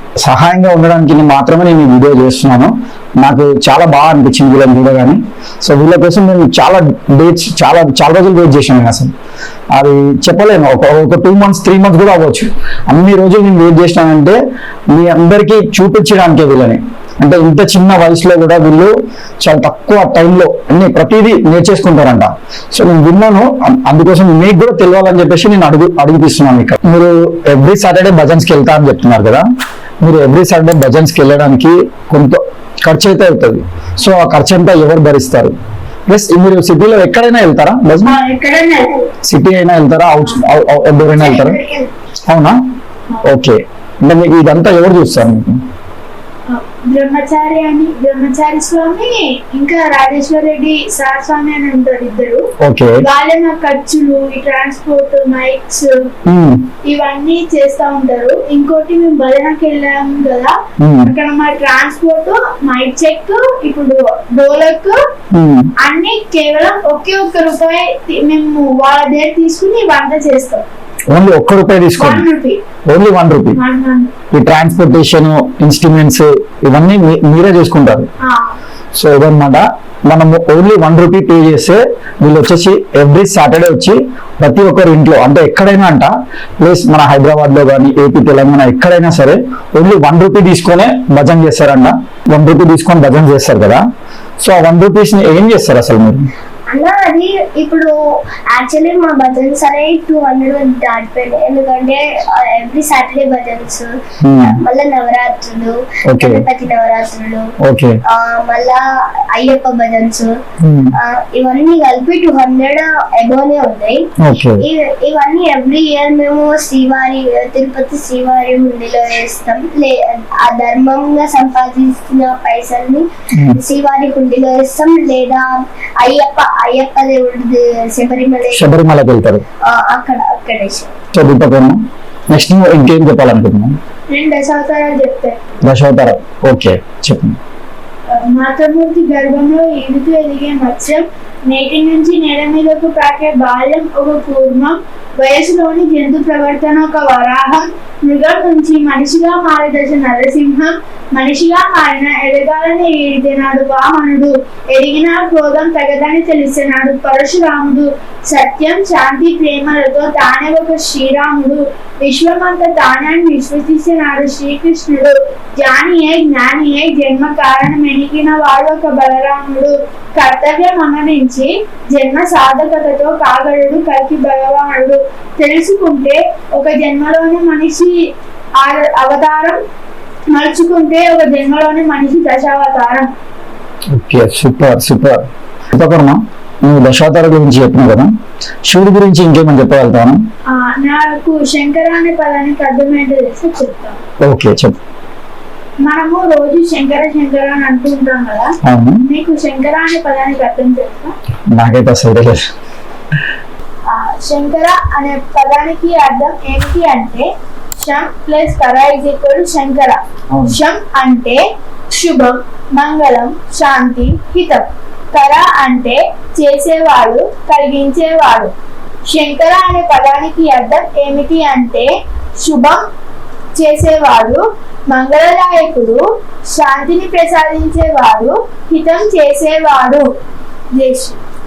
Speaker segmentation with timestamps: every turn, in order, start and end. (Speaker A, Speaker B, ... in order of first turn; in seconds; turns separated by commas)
Speaker A: 0.2-9.1, Speaker A: 9.7-14.4, Speaker A: 14.9-29.4, Speaker A: 30.0-35.5, Speaker A: 36.1-38.2, Speaker B: 38.0-39.0, Speaker A: 39.2-41.6, Speaker C: 41.2-41.9, Speaker A: 42.3-42.6, Speaker A: 43.2-45.6, Speaker B: 46.5-52.5, Speaker A: 52.6-53.0, Speaker B: 53.0-56.0, Speaker A: 56.2-56.7, Speaker B: 56.8-65.0, Speaker A: 60.8-61.1, Speaker A: 65.3-65.7, Speaker B: 65.8-70.7, Speaker A: 71.1-72.2, Speaker B: 72.0-72.6, Speaker A: 72.9-73.6, Speaker B: 73.5-74.1, Speaker A: 74.3-78.1, Speaker B: 78.2-78.6, Speaker A: 78.9-93.8, Speaker A: 94.4-96.3, Speaker C: 96.7-98.0, Speaker C: 98.5-107.5, Speaker A: 104.2-104.6, Speaker A: 106.1-106.4, Speaker A: 107.6-108.0, Speaker C: 108.1-110.4, Speaker A: 110.6-111.0, Speaker C: 111.0-114.1, Speaker A: 114.2-114.6, Speaker C: 114.6-128.7, Speaker A: 123.3-123.6, Speaker A: 128.5-129.4, Speaker C: 129.6-130.9, Speaker A: 131.1-133.8, Speaker B: 134.1-135.6, Speaker A: 135.6-137.4, Speaker B: 138.1-179.6, Speaker B: 180.3-183.1, Speaker A: 183.9-188.1, Speaker A: 188.7-190.2, Speaker B: 190.5-194.0, Speaker A: 194.2-194.8, Speaker B: 195.8-198.5, Speaker A: 198.6-199.0, Speaker B: 199.1-201.1, Speaker A: 201.5-202.4, Speaker B: 203.9-218.5, Speaker A: 210.3-210.6, Speaker B: 219.1-222.9, Speaker B: 223.6-230.1, Speaker B: 230.7-231.2